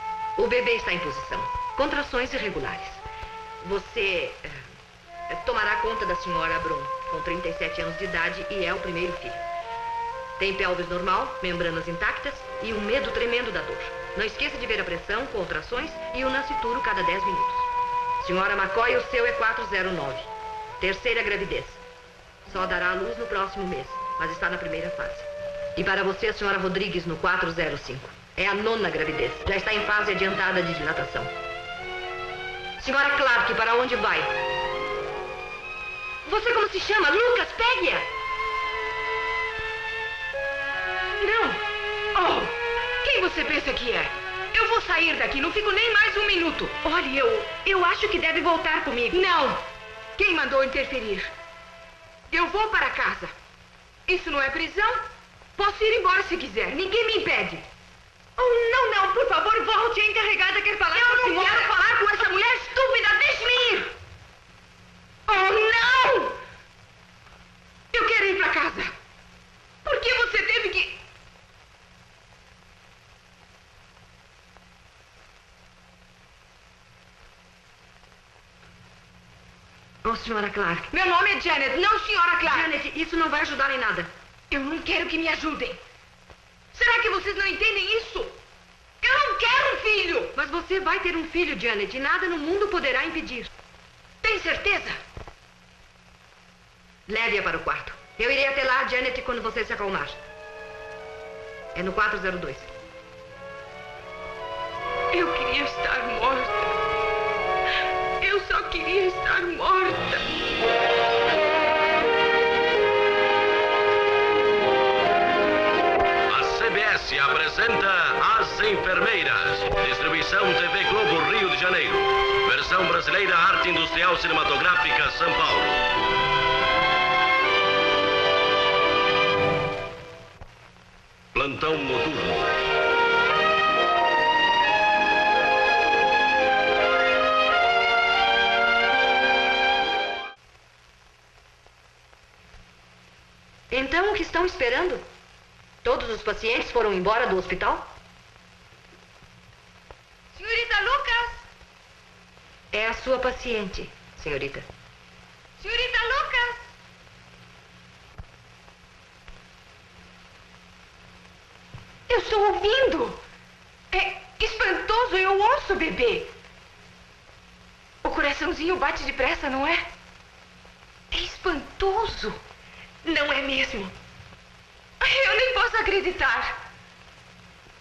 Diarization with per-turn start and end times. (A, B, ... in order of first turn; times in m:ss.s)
0:00.4-0:03.0 A
0:03.6-0:04.7 A
0:05.3-0:09.4 A
0:10.4-0:21.8 A
0:22.4-0:31.3 A
0:32.8-0:34.3 A
0:36.2-0:38.1 A
0:41.2-0:41.6 B
0:42.1-0:49.6 B
0:48.4-0:49.2 A
0:50.2-0:51.3 B
0:52.3-0:53.3 B
0:54.1-0:55.0 B
0:55.6-0:57.6 B
0:58.4-1:01.7 A
1:00.9-1:03.9 B
1:05.3-1:06.4 B
1:07.9-1:08.9 B
1:09.8-1:11.0 B
1:20.0-1:20.9 A
1:20.9-1:22.7 B
1:22.4-1:24.1 A
1:24.5-1:25.8 B
1:26.7-1:28.4 B
1:29.0-1:30.3 B
1:30.3-1:33.5 A
1:34.2-1:35.0 B
1:37.1-1:40.2 A
1:41.7-1:42.7 A
1:45.1-1:46.8 B
1:48.2-1:50.3 B
1:56.3-2:05.8 C
2:11.3-2:12.5 C
2:23.7-2:25.1 A
2:25.8-2:27.9 A
2:30.3-2:31.4 B
2:32.7-2:34.7 A
2:35.6-2:36.6 B
2:42.1-2:43.2 B
2:43.9-2:46.3 B
2:48.0-2:49.9 B
2:51.1-2:52.4 B
2:53.0-2:53.9 B
2:55.0-2:56.6 B